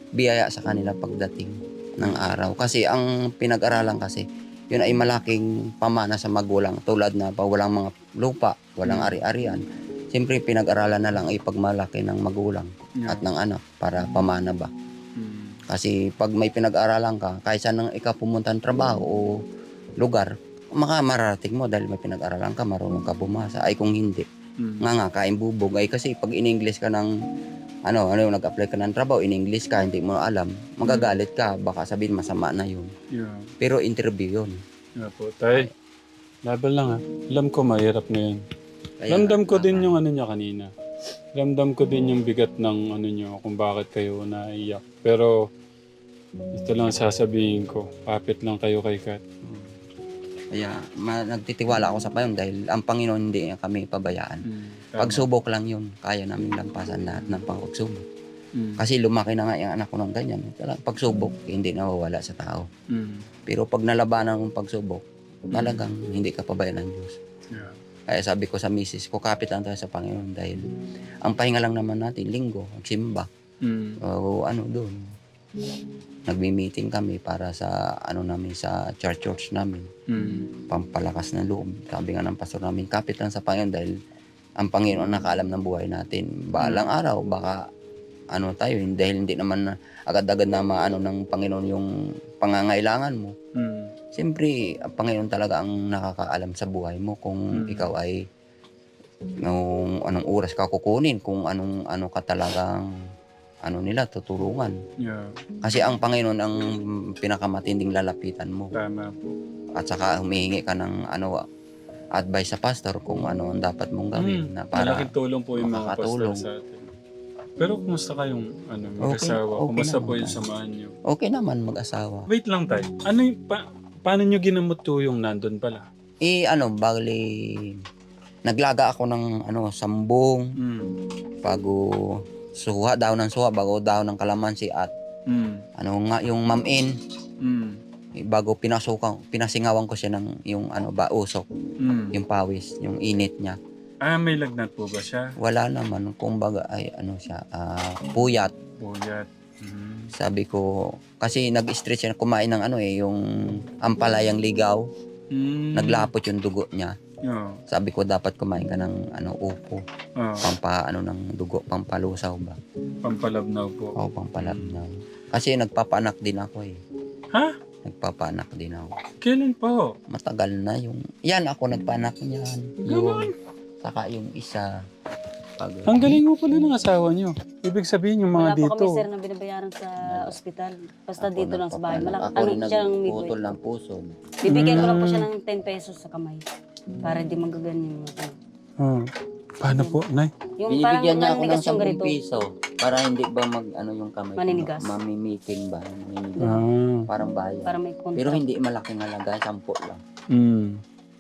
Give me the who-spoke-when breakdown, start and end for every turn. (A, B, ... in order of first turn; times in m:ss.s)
0:00.2-0:14.7 A
0:02.0-0:02.3 B
0:08.8-0:09.2 B
0:13.0-0:13.3 B
0:15.2-0:15.6 B
0:15.7-0:19.3 A
0:20.0-0:24.3 A
0:24.6-0:24.9 B
0:24.8-0:27.1 A
0:27.9-0:32.9 A
0:30.8-0:31.2 B
0:33.1-0:33.5 B
0:33.6-0:34.6 A
0:35.0-0:35.7 B
0:36.5-0:38.4 B
0:39.0-0:40.0 A
0:39.1-0:40.7 B
0:41.4-0:45.4 B
0:46.5-0:49.2 B
0:50.5-0:54.4 A
0:54.5-0:55.3 B
0:55.0-0:58.1 A
0:58.6-0:58.8 B
0:58.8-1:02.7 A
1:02.9-1:03.3 B
1:03.5-1:07.2 A
1:05.5-1:05.8 B
1:08.1-1:10.6 A
1:11.2-1:13.3 A
1:13.6-1:14.0 B
1:14.0-1:15.1 A
1:16.3-1:19.9 A
1:20.1-1:20.5 B
1:20.7-1:23.9 A
1:24.6-1:27.6 A
1:26.6-1:26.9 B
1:28.3-1:31.9 A
1:32.4-1:33.4 A
1:33.6-1:33.9 B
1:34.1-1:38.2 A
1:37.6-1:37.9 B
1:39.4-1:42.8 A
1:43.7-1:44.7 A
1:45.0-1:45.4 B
1:45.6-1:46.6 A
1:47.2-1:48.7 A
1:48.8-1:49.3 B
1:49.8-1:51.4 A
1:52.2-1:56.5 A
1:54.2-1:56.8 B
1:57.6-2:00.9 B
1:59.0-2:00.4 A
2:01.1-2:02.3 A
2:02.3-2:05.8 B
2:06.2-2:07.2 A
2:08.5-2:10.5 A
2:10.6-2:10.9 B
2:11.4-2:11.8 A
2:12.6-2:14.9 A
2:15.3-2:15.6 B
2:15.8-2:16.9 A
2:17.4-2:17.8 B
2:18.2-2:21.5 A
2:21.8-2:22.2 B
2:22.1-2:23.6 A
2:24.0-2:25.3 B
2:25.4-2:28.6 A
2:28.8-2:30.1 B
2:30.2-2:30.6 A
2:31.2-2:34.8 A
2:35.3-2:36.1 B
2:35.8-2:37.0 A
2:37.3-2:37.6 B
2:37.7-2:39.8 A
2:40.2-2:40.5 B
2:40.4-2:42.6 A
2:43.0-2:44.8 B
2:44.0-2:46.8 A
2:47.8-2:49.0 A
2:49.2-2:50.0 B
2:50.1-2:53.3 A
2:52.8-2:53.3 B
2:53.8-2:54.7 A
2:55.6-2:56.2 A
2:55.9-2:59.1 B
2:58.4-3:03.4 C
3:00.1-3:00.4 A
3:01.2-3:05.0 A
3:04.4-3:06.4 C
3:04.4-3:05.3 B
3:07.0-3:08.4 C
3:08.8-3:09.1 B
3:09.6-3:10.3 B
3:09.6-3:10.0 C
3:10.6-3:12.1 C
3:10.7-3:16.6 A
3:14.4-3:14.9 C
3:16.4-3:17.1 B
3:17.1-3:20.0 A
3:17.7-3:18.4 C
3:20.3-3:20.8 B